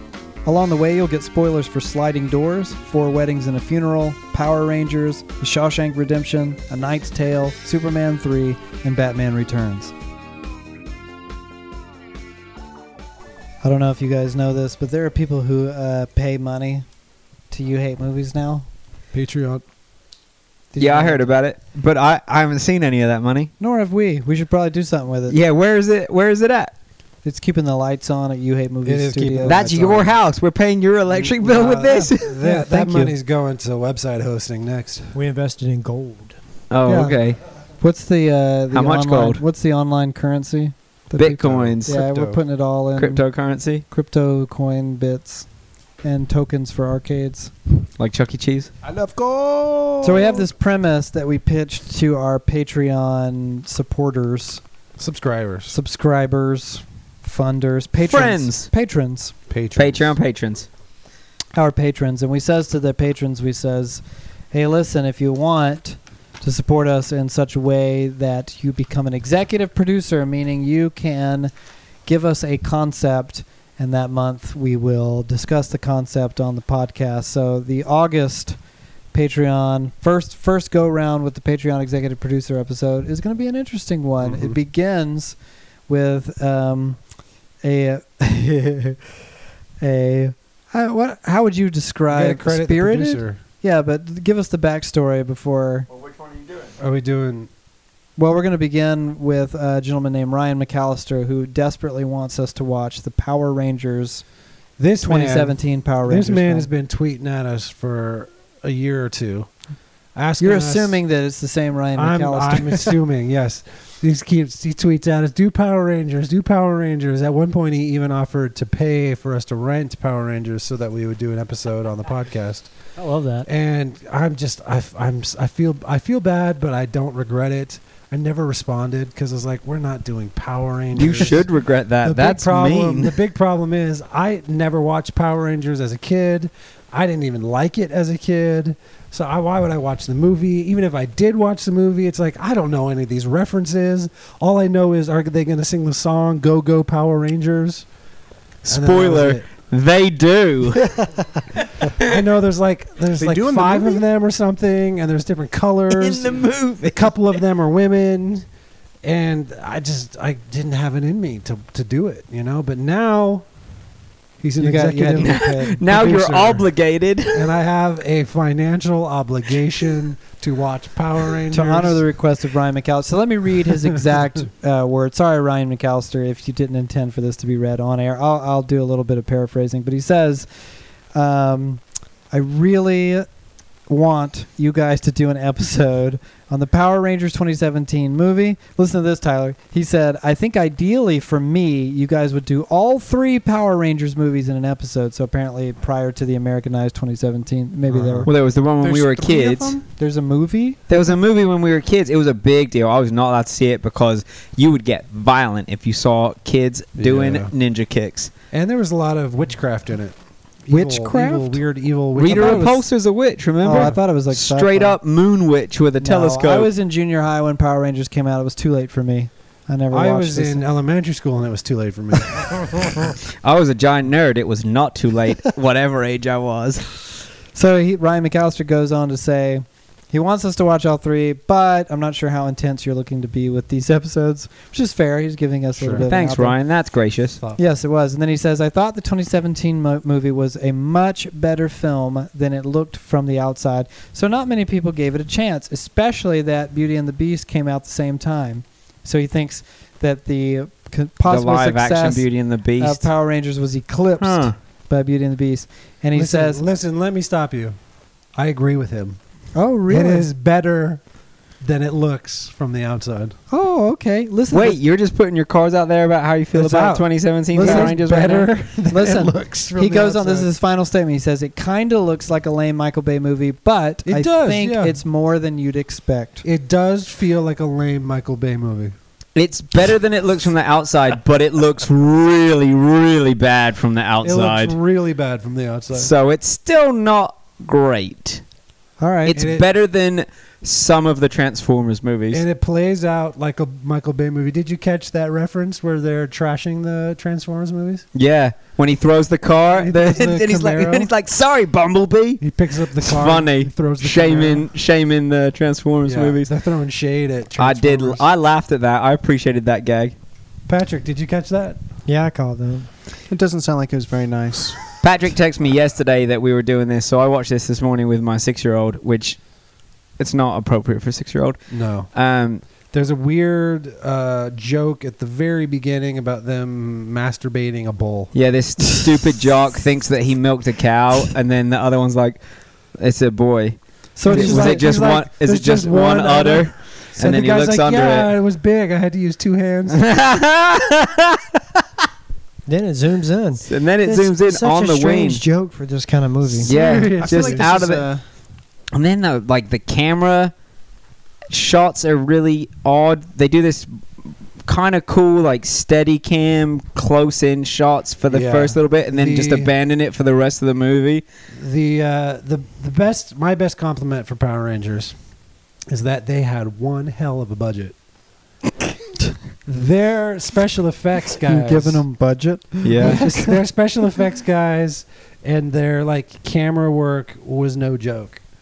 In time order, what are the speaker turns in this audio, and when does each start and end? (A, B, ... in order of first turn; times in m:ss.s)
0:00.4-0:09.9 A
0:13.6-0:16.9 A
0:17.5-0:18.7 A
0:19.1-0:19.6 B
0:20.7-0:21.2 A
0:20.8-0:23.5 C
0:23.6-0:25.4 A
0:25.3-0:26.7 C
0:27.2-0:29.6 A
0:28.9-0:30.2 B
0:29.4-0:32.4 C
0:31.1-0:35.2 B
0:31.9-0:33.2 A
0:35.1-0:36.4 D
0:36.7-0:37.4 C
0:36.9-0:37.2 A
0:37.8-0:43.3 A
0:38.7-0:39.4 C
0:41.2-0:42.0 C
0:41.4-0:42.4 B
0:43.0-0:43.8 C
0:43.9-0:45.5 A
0:46.0-0:47.5 A
0:48.0-0:48.7 C
0:48.8-0:50.3 B
0:50.0-0:54.6 A
0:55.0-0:55.8 B
0:55.7-0:59.3 A
0:58.1-0:58.7 C
0:59.5-1:00.1 B
0:59.8-1:00.7 C
1:01.6-1:11.5 A
1:12.1-1:18.6 A
1:19.1-1:27.1 A
1:24.2-1:24.6 B
1:27.6-1:29.0 A
1:29.8-1:35.9 A
1:32.1-1:33.4 B
1:36.8-1:37.5 B
1:38.2-1:44.2 A
1:44.8-1:49.5 B
1:45.0-1:46.7 A
1:50.1-1:51.0 B
1:50.4-1:53.0 A
1:52.0-2:02.7 B
2:03.0-2:03.5 D
2:03.4-2:27.9 B
2:10.9-2:13.2 C
2:28.6-2:30.9 C
2:28.7-2:29.4 B
2:32.0-2:38.4 B
2:33.2-2:34.0 E
2:35.9-2:37.1 C
2:39.0-2:43.5 B
2:44.4-2:46.7 B
2:44.6-2:45.8 A
2:45.2-2:47.5 C
2:47.3-2:52.0 B
2:51.5-3:00.5 A
3:01.1-3:03.3 A
3:03.9-3:18.3 A
3:17.9-3:18.3 B
3:18.2-3:19.8 C
3:18.8-3:19.9 E
3:20.0-3:20.8 A
3:20.9-3:28.3 C
3:27.0-3:27.5 B
3:28.5-3:30.2 B
3:30.7-3:32.9 B
3:30.7-3:31.6 A
3:32.2-3:36.7 C
3:32.4-3:32.6 A
3:33.6-3:35.0 A
3:33.7-3:34.0 B
3:36.0-3:40.6 A
3:39.9-3:43.0 B
3:43.4-3:46.9 C
3:47.5-3:56.6 A
3:55.8-3:56.1 B
3:56.1-3:57.4 C
3:57.6-4:16.6 A
4:11.3-4:13.1 C
4:14.2-4:14.5 C
4:16.1-4:17.8 B
4:18.3-4:19.2 B
4:19.5-4:20.3 A
4:19.9-4:21.0 B
4:21.6-4:23.4 B
4:23.5-4:24.8 A
4:24.5-4:28.5 C
4:26.5-4:30.5 B
4:27.5-4:27.9 A
4:28.9-4:36.4 A
4:34.0-4:35.0 B
4:36.4-4:38.9 B
4:39.4-4:44.8 C
4:44.2-4:46.1 B
4:45.9-4:48.4 C
4:49.0-4:49.4 A
4:49.2-4:49.6 B
4:49.2-4:52.4 C
4:52.3-4:58.1 B
4:58.1-5:02.4 C
4:59.8-5:01.1 B
5:02.4-5:04.7 B
5:03.0-5:06.5 C
5:06.0-5:08.2 B
5:07.6-5:10.1 C
5:10.7-5:11.8 B
5:12.1-5:12.9 D
5:13.3-5:14.8 E
5:15.0-5:19.4 C
5:20.2-5:22.6 C
5:21.7-5:22.1 B
5:22.9-5:28.3 B
5:28.3-5:32.4 C
5:33.0-5:38.3 C
5:34.2-5:34.8 A
5:34.2-5:40.0 B
5:39.9-5:41.5 C
5:42.6-5:46.7 D
5:43.6-5:45.4 C
5:46.6-5:47.8 B
5:46.6-5:48.1 C
5:46.8-5:48.2 E
5:48.9-5:50.5 C
5:51.5-5:53.9 C
5:54.6-6:01.2 C
5:58.3-5:59.7 B
6:01.5-6:05.2 B
6:05.9-6:08.0 B
6:09.7-6:12.0 B
6:11.4-6:13.6 A
6:12.8-6:13.3 C
6:13.0-6:18.4 B